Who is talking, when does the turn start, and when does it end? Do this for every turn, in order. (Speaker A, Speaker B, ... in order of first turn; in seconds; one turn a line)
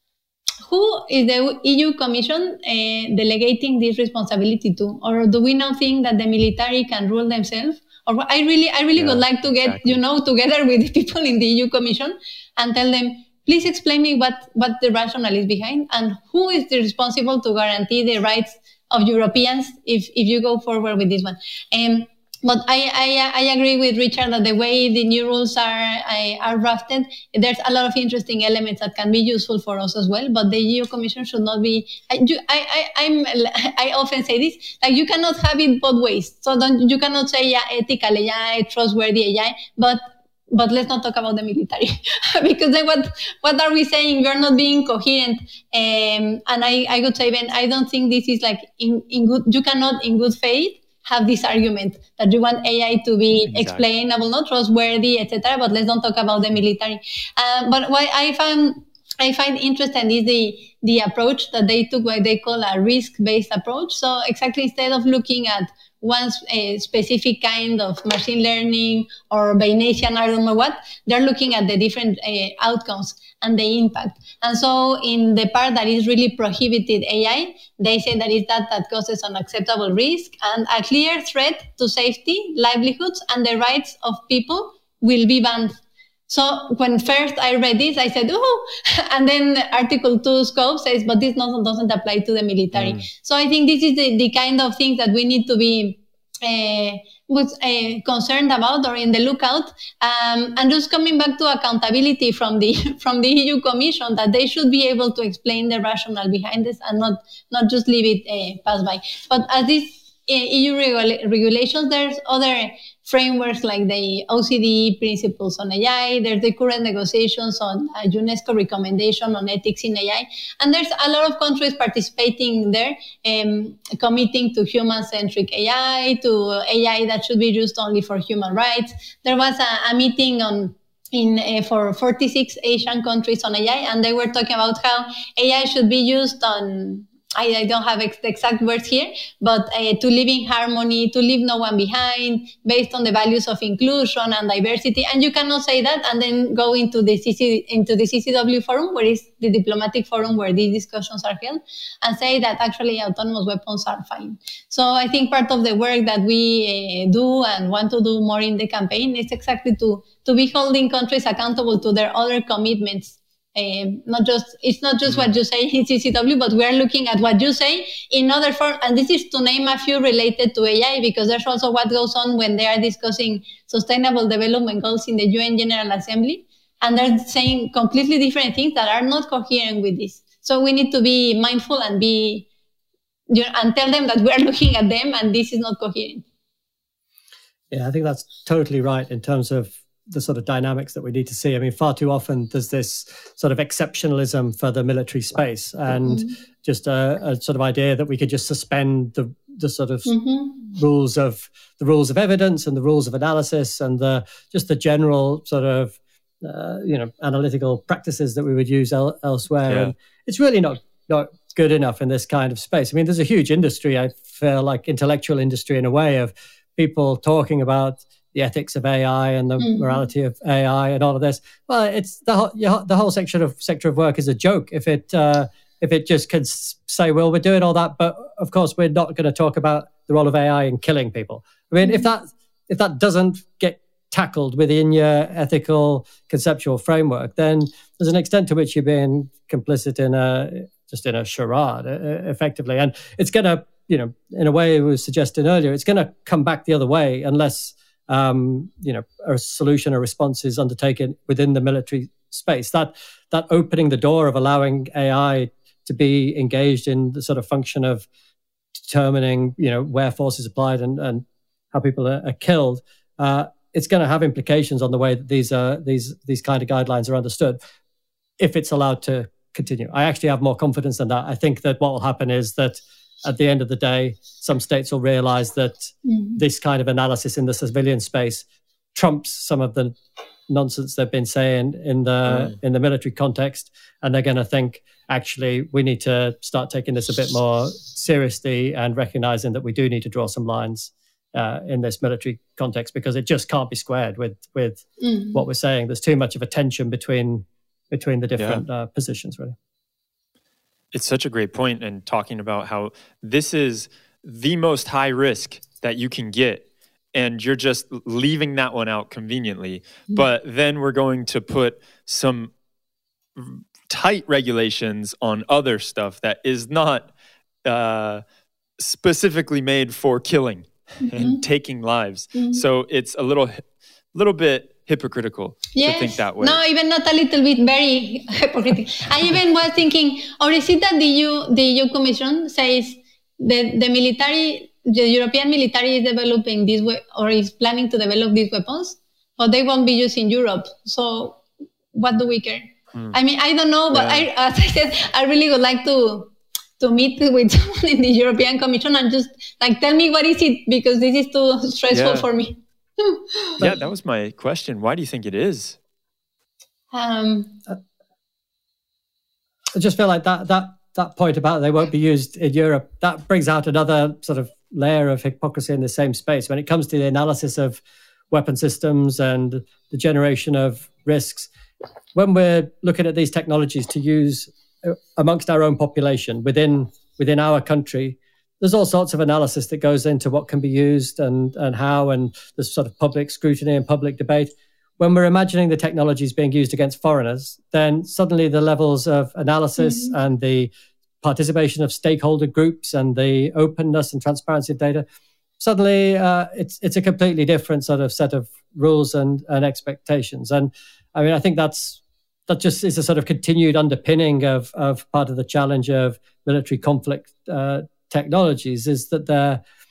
Speaker A: 0.6-85.7
Speaker B: 8.9-10.0
Speaker B: 53.4-53.8
Speaker A: 86.3-182.5
Speaker B: 92.7-93.1
Speaker A: 183.3-186.2
Speaker C: 187.7-258.1
Speaker A: 196.0-196.3
Speaker A: 200.1-200.6
Speaker B: 209.7-209.9
Speaker A: 219.6-220.0
Speaker C: 258.8-267.6
Speaker C: 268.4-279.9
Speaker A: 276.0-276.4
Speaker C: 280.5-299.6
Speaker B: 282.3-282.5
Speaker A: 295.0-295.4
Speaker B: 298.4-298.6
Speaker B: 300.9-312.5
Speaker B: 313.4-317.1
Speaker B: 317.6-318.2
Speaker B: 318.8-323.6
Speaker A: 321.0-321.4
Speaker A: 322.3-322.6
Speaker B: 324.1-326.6
Speaker A: 325.7-341.4
Speaker A: 341.9-353.6
Speaker B: 343.9-344.2
Speaker B: 351.9-352.3
Speaker B: 353.6-355.8
Speaker A: 356.9-357.6
Speaker C: 359.7-371.5
Speaker C: 372.1-390.7
Speaker A: 389.8-390.1
Speaker C: 391.2-395.0
Speaker C: 395.6-409.6